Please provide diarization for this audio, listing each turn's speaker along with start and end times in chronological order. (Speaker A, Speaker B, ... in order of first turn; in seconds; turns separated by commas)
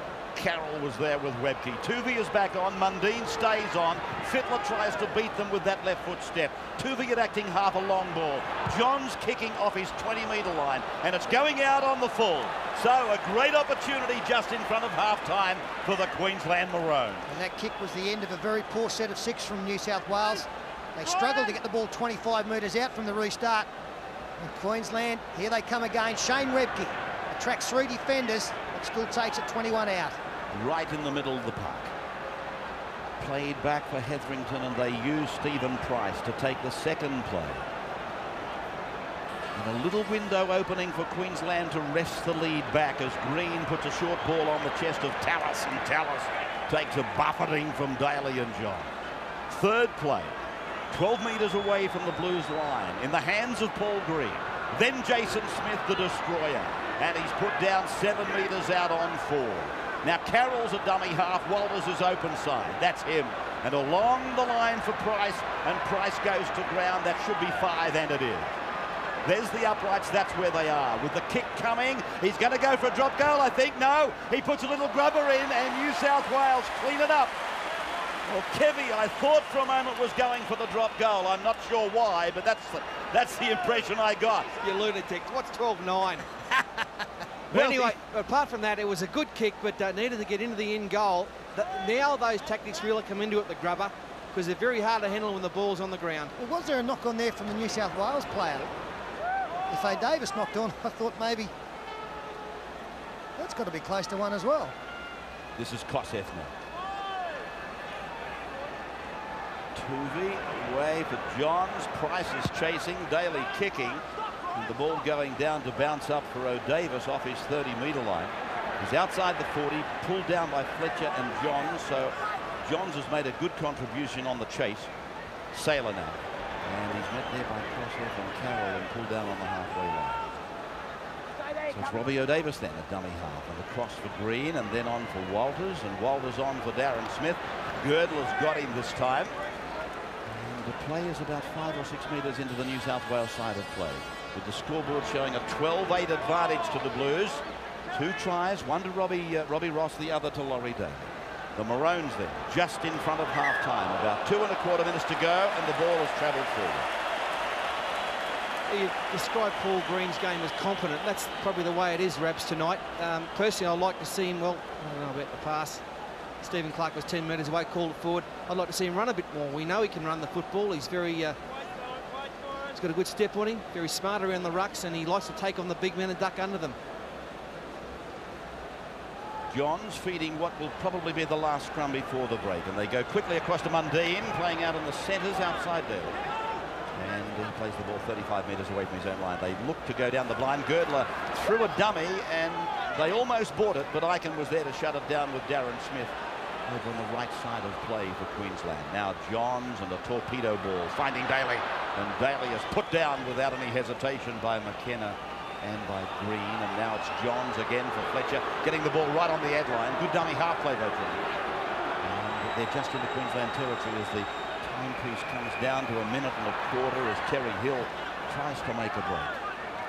Speaker A: 0.3-17.3, Speaker B: 17.3-23.7, Speaker B: 24.4-30.2, Speaker A: 30.5-31.9, Speaker A: 33.2-37.7, Speaker A: 39.5-48.9, Speaker A: 49.5-68.5, Speaker A: 69.2-77.3, Speaker A: 78.2-84.5, Speaker C: 84.6-86.2, Speaker A: 86.5-86.8, Speaker A: 87.5-88.0, Speaker C: 87.5-96.3, Speaker B: 96.4-98.7, Speaker B: 99.7-101.5, Speaker B: 103.4-104.7, Speaker A: 105.5-106.5, Speaker A: 109.7-124.9, Speaker A: 125.5-130.4, Speaker A: 131.7-139.4, Speaker A: 140.2-156.9, Speaker C: 158.7-165.8, Speaker C: 166.4-171.4, Speaker C: 172.7-176.8, Speaker A: 179.5-186.2, Speaker A: 186.9-211.2, Speaker A: 212.0-219.4